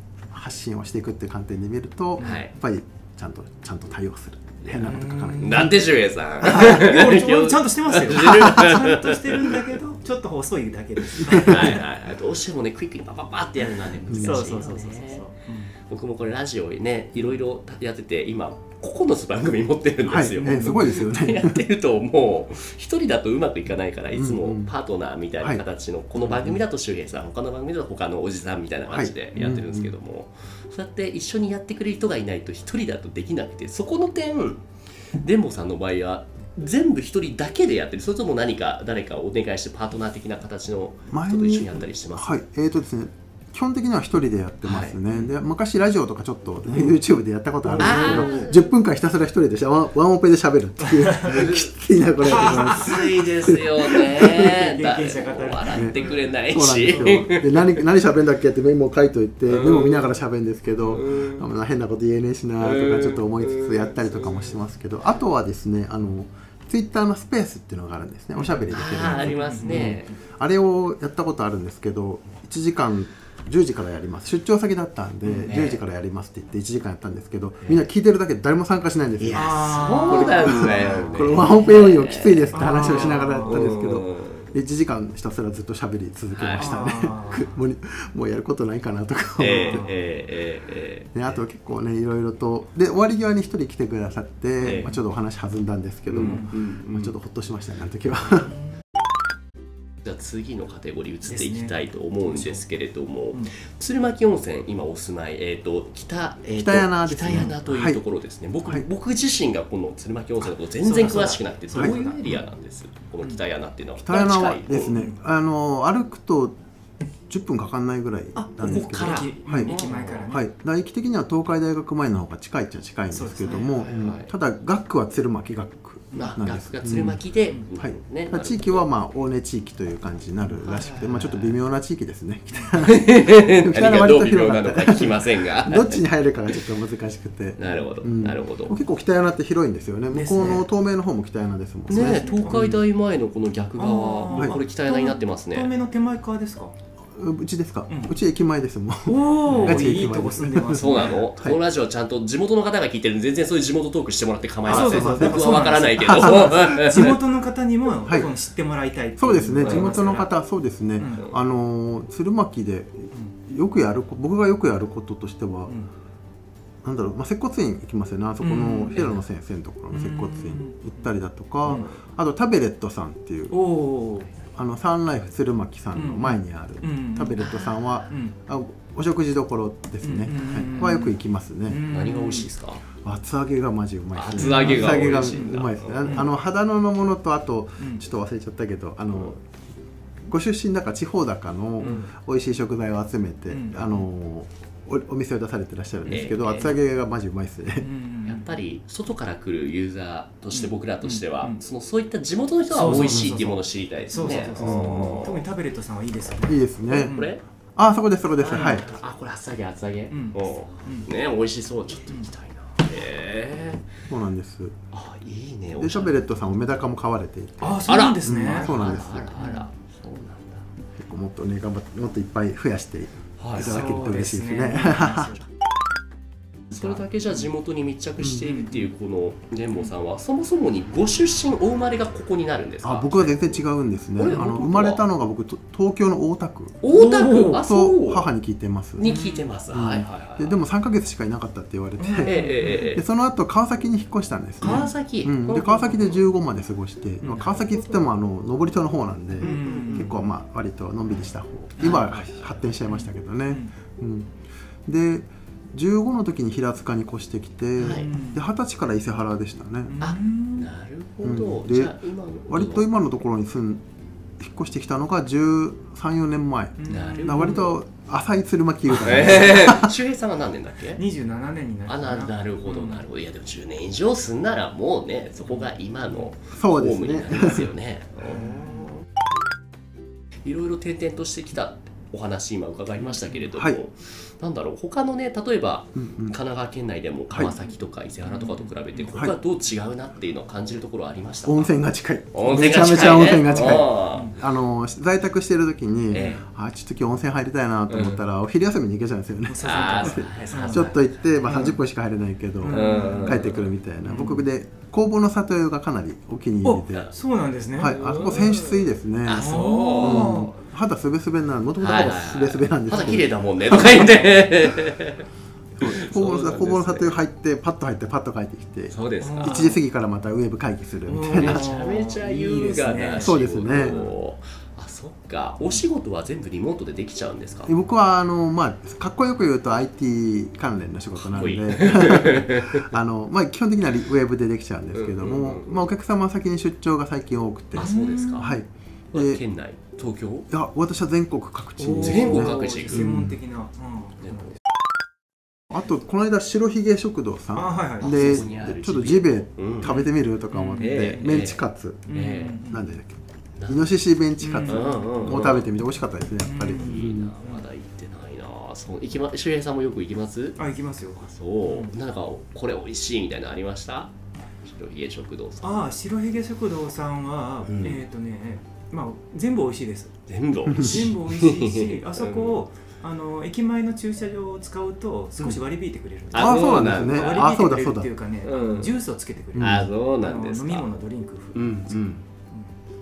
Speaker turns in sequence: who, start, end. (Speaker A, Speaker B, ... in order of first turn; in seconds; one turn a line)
Speaker A: 0.3-5.8
Speaker B: 2.2-2.5
Speaker B: 4.6-9.7
Speaker C: 4.8-5.8
Speaker C: 6.4-11.8
Speaker A: 8.2-8.6
Speaker A: 11.3-11.8
Speaker B: 11.3-15.2
Speaker C: 13.7-15.7
Speaker A: 14.1-14.3
Speaker B: 15.9-34.6
Speaker A: 20.1-21.6
Speaker A: 24.1-24.7
Speaker A: 26.2-26.6
Speaker A: 28.9-29.9
Speaker B: 35.2-42.4
Speaker A: 41.1-54.5
Speaker B: 44.6-45.0
Speaker B: 46.7-46.9
Speaker C: 47.6-48.5
Speaker B: 47.8-48.8
Speaker C: 51.0-51.4
Speaker B: 51.2-57.8
Speaker C: 52.3-53.6
Speaker C: 54.2-56.2
Speaker A: 55.7-89.9
Speaker C: 56.9-57.2
Speaker B: 59.5-60.1
Speaker C: 60.8-61.0
Speaker B: 60.9-61.5
Speaker B: 62.6-64.5
Speaker C: 68.4-70.0
Speaker B: 68.7-70.2
Speaker B: 75.4-75.8
Speaker B: 79.2-84.5
Speaker C: 79.3-81.7
Speaker C: 82.5-83.7
Speaker B: 86.3-86.8
Speaker C: 86.6-87.5
Speaker C: 89.4-89.9
Speaker B: 89.4-91.4
Speaker A: 91.1-98.6
Speaker B: 94.6-95.0
Speaker B: 96.1-97.2
Speaker C: 96.2-96.5
Speaker B: 100.0-115.0
Speaker C: 101.3-101.8
Speaker C: 102.3-102.6
Speaker A: 106.5-108.0
Speaker C: 110.8-112.4
Speaker A: 111.7-112.0
Speaker A: 114.0-116.6
Speaker A: 117.3-127.2
Speaker B: 118.3-120.3
Speaker C: 118.6-120.5
Speaker C: 123.1-123.8
Speaker B: 123.5-124.3
Speaker B: 126.1-128.9
Speaker A: 127.8-142.8
Speaker B: 130.6-131.6
Speaker B: 132.8-136.1
Speaker B: 137.6-138.8
Speaker C: 140.1-140.7
Speaker B: 141.9-145.7
Speaker C: 142.0-142.7
Speaker C: 143.8-146.8
Speaker A: 147.2-151.6
Speaker C: 147.9-148.2
Speaker C: 149.1-151.2
Speaker B: 149.5-150.1
Speaker B: 150.7-157.2
Speaker A: 154.7-157.2
Speaker C: 154.7-160.3
Speaker A: 159.2-165.8
Speaker B: 159.6-160.2
Speaker C: 161.0-161.3
Speaker B: 161.0-161.4
Speaker A: 166.8-173.7
Speaker C: 168.4-169.1
Speaker B: 168.9-169.2
Speaker C: 169.9-170.9
Speaker B: 171.6-172.0
Speaker C: 173.5-174.3
Speaker A: 174.6-181.8
Speaker C: 175.9-177.5
Speaker B: 177.4-178.1
Speaker C: 178.1-178.4
Speaker C: 180.0-181.2
Speaker C: 181.7-182.5
Speaker B: 181.9-182.8
Speaker A: 183.0-189.4
Speaker B: 184.1-186.3
Speaker C: 184.4-186.3
Speaker C: 187.8-188.1
Speaker A: 190.3-197.9
Speaker C: 191.8-192.1
Speaker B: 191.8-192.1
Speaker C: 193.5-194.1
Speaker B: 196.1-196.8
Speaker C: 197.8-198.5
Speaker B: 198.3-205.4
Speaker C: 200.5-201.6
Speaker C: 202.7-207.3
Speaker A: 202.9-203.3
Speaker A: 204.6-205.0
Speaker A: 206.4-207.2
Speaker B: 206.9-207.4
Speaker A: 207.8-208.9
Speaker B: 208.4-213.8
Speaker C: 208.5-208.9
Speaker C: 210.1-211.1
Speaker A: 214.1-214.8
Speaker B: 214.9-216.4
Speaker A: 215.8-219.3
Speaker C: 217.6-218.8
Speaker B: 217.8-220.7
Speaker C: 219.4-219.7
Speaker A: 221.0-225.4
Speaker B: 223.4-223.9
Speaker C: 223.6-225.5
Speaker B: 226.7-235.1
Speaker C: 226.8-227.0
Speaker C: 228.3-228.9
Speaker A: 232.8-239.1
Speaker B: 236.8-238.3
Speaker C: 236.9-237.6
Speaker B: 239.0-240.6
Speaker C: 239.0-239.5
Speaker A: 239.7-254.3
Speaker C: 242.0-242.9
Speaker B: 242.2-243.1
Speaker B: 244.6-246.3
Speaker C: 244.6-244.9
Speaker C: 247.2-247.7
Speaker B: 247.4-248.1
Speaker C: 249.4-250.2
Speaker B: 249.4-250.2
Speaker C: 251.8-252.1
Speaker B: 251.8-252.6
Speaker C: 252.9-253.7
Speaker A: 254.9-260.0
Speaker B: 257.8-258.1
Speaker C: 257.9-258.4
Speaker C: 259.9-260.7
Speaker B: 260.0-262.9
Speaker A: 261.2-263.8
Speaker A: 264.4-269.9
Speaker C: 266.8-267.7
Speaker B: 266.9-267.6
Speaker B: 268.9-271.0
Speaker C: 269.1-269.6
Speaker C: 271.0-273.1
Speaker B: 271.9-279.0
Speaker C: 275.5-276.3
Speaker A: 276.5-277.7
Speaker C: 278.3-278.9
Speaker B: 280.4-291.8
Speaker C: 283.0-283.4
Speaker A: 285.9-286.4
Speaker A: 287.3-287.6
Speaker C: 288.2-289.2
Speaker A: 291.4-307.1
Speaker B: 292.3-294.4
Speaker C: 293.0-294.4
Speaker B: 296.1-296.4
Speaker B: 297.9-298.2
Speaker C: 299.5-301.8
Speaker B: 299.6-301.1
Speaker C: 302.6-304.4
Speaker B: 302.7-303.7
Speaker C: 306.6-308.7
Speaker A: 307.7-314.8
Speaker B: 307.8-310.4
Speaker C: 309.4-310.6
Speaker B: 311.8-315.2
Speaker A: 315.8-321.7
Speaker B: 315.8-317.2
Speaker B: 318.9-319.7
Speaker C: 319.2-319.8
Speaker C: 321.1-324.1
Speaker B: 321.4-327.8
Speaker A: 323.2-324.0
Speaker A: 327.7-339.4
Speaker B: 331.2-332.9
Speaker B: 334.9-335.8
Speaker B: 337.7-338.6
Speaker C: 337.7-338.6
Speaker B: 339.1-340.5
Speaker A: 340.5-343.4
Speaker C: 341.8-344.6
Speaker B: 341.9-343.1
Speaker A: 345.7-352.1
Speaker C: 347.6-348.4
Speaker B: 348.0-350.0
Speaker C: 349.8-351.4
Speaker B: 350.8-352.6
Speaker C: 352.1-352.9
Speaker A: 352.7-353.2
Speaker B: 353.6-353.9
Speaker A: 353.7-357.3
Speaker C: 354.4-355.6
Speaker B: 354.6-355.7
Speaker C: 356.4-357.6
Speaker B: 356.7-360.6
Speaker C: 360.6-361.9
Speaker B: 361.2-365.9
Speaker C: 365.6-370.1
Speaker B: 367.7-368.0
Speaker B: 370.3-372.6
Speaker A: 370.7-371.1
Speaker C: 370.7-382.8
Speaker B: 376.3-377.5
Speaker A: 376.4-378.1
Speaker B: 378.4-379.0
Speaker A: 379.5-379.9
Speaker B: 379.6-380.9
Speaker B: 381.5-382.2